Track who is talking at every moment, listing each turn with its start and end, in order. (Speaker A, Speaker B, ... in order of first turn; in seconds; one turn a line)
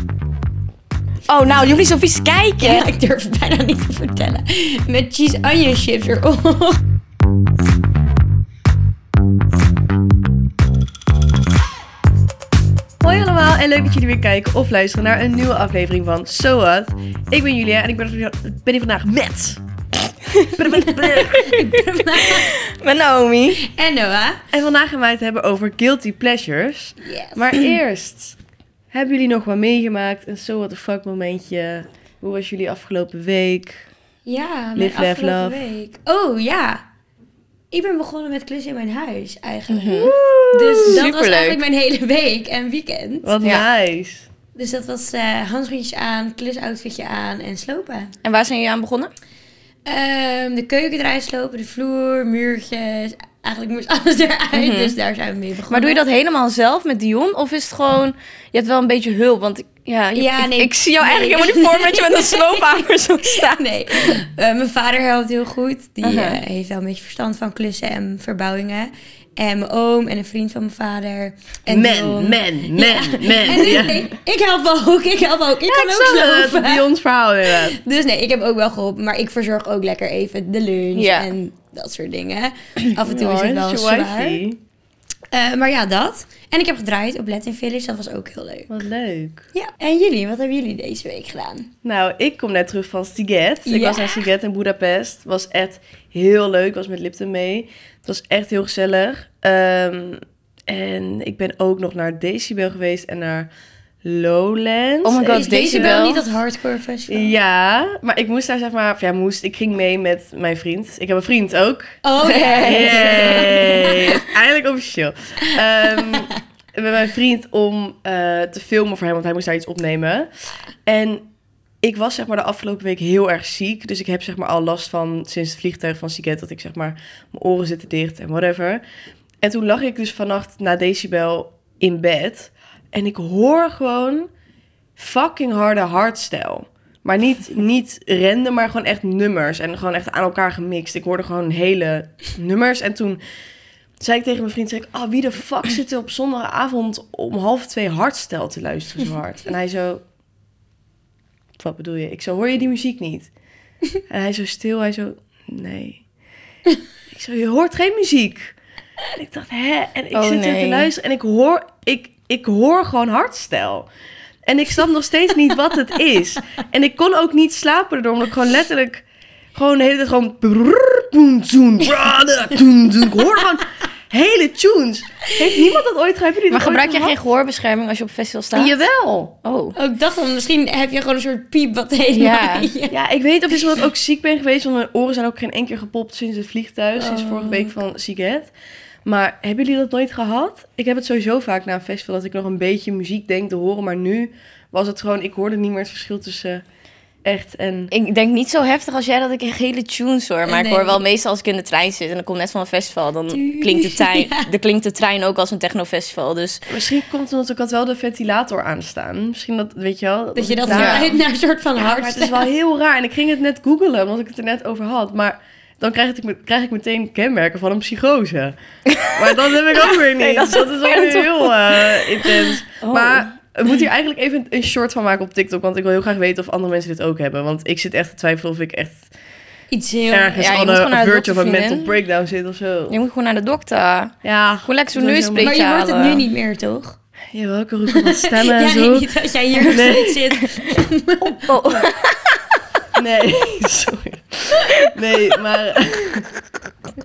Speaker A: 1.3-2.9
Speaker B: 2.6-6.8
Speaker C: 13.0-19.6
Speaker A: 20.3-21.6
Speaker C: 20.6-21.3
Speaker B: 20.6-22.5
Speaker A: 22.1-23.6
Speaker B: 23.6-24.4
Speaker C: 24.5-28.4
Speaker B: 27.0-27.3
Speaker C: 28.9-33.8
Speaker B: 34.2-36.8
Speaker C: 34.8-35.6
Speaker B: 37.7-43.5
Speaker A: 39.7-40.1
Speaker C: 40.0-41.0
Speaker A: 40.8-41.6
Speaker C: 43.2-44.3
Speaker B: 44.5-48.1
Speaker A: 48.2-49.1
Speaker B: 49.9-56.0
Speaker A: 54.5-54.9
Speaker A: 55.7-64.2
Speaker B: 60.1-76.8
Speaker A: 66.0-66.4
Speaker C: 71.7-74.1
Speaker C: 75.7-77.8
Speaker B: 77.7-84.4
Speaker A: 80.9-81.3
Speaker C: 83.0-84.6
Speaker B: 85.3-88.8
Speaker C: 88.7-89.5
Speaker B: 89.5-91.7
Speaker C: 91.8-103.5
Speaker B: 93.7-94.2
Speaker C: 104.0-106.0
Speaker A: 105.0-106.2
Speaker B: 105.3-107.3
Speaker C: 107.1-112.0
Speaker B: 112.0-114.2
Speaker A: 112.2-113.9
Speaker C: 112.6-120.3
Speaker B: 115.5-116.3
Speaker C: 120.8-121.2
Speaker C: 121.8-128.8
Speaker C: 129.4-134.3
Speaker C: 135.0-143.2
Speaker C: 144.0-150.0
Speaker C: 151.6-153.3
Speaker C: 154.1-156.0
Speaker C: 157.1-158.5
Speaker C: 159.1-163.9
Speaker A: 160.1-160.9
Speaker C: 164.4-169.0
Speaker C: 169.5-177.2
Speaker A: 176.5-178.8
Speaker C: 178.5-179.3
Speaker A: 179.4-179.8
Speaker B: 179.8-182.9
Speaker A: 182.1-182.7
Speaker C: 182.9-188.5
Speaker B: 187.0-187.7
Speaker C: 189.0-196.6
Speaker C: 197.2-197.9
Speaker A: 197.9-206.6
Speaker B: 200.4-201.0
Speaker B: 203.3-204.5
Speaker C: 206.7-211.2
Speaker B: 210.3-212.5
Speaker A: 210.7-211.1
Speaker C: 211.7-218.6
Speaker A: 218.8-223.3
Speaker C: 219.1-229.0
Speaker B: 229.7-230.5
Speaker C: 230.1-233.0
Speaker A: 230.3-231.9
Speaker A: 232.9-236.2
Speaker C: 234.2-235.6
Speaker B: 235.4-236.9
Speaker C: 237.3-240.2
Speaker B: 237.9-241.5
Speaker A: 241.2-242.1
Speaker C: 242.9-246.3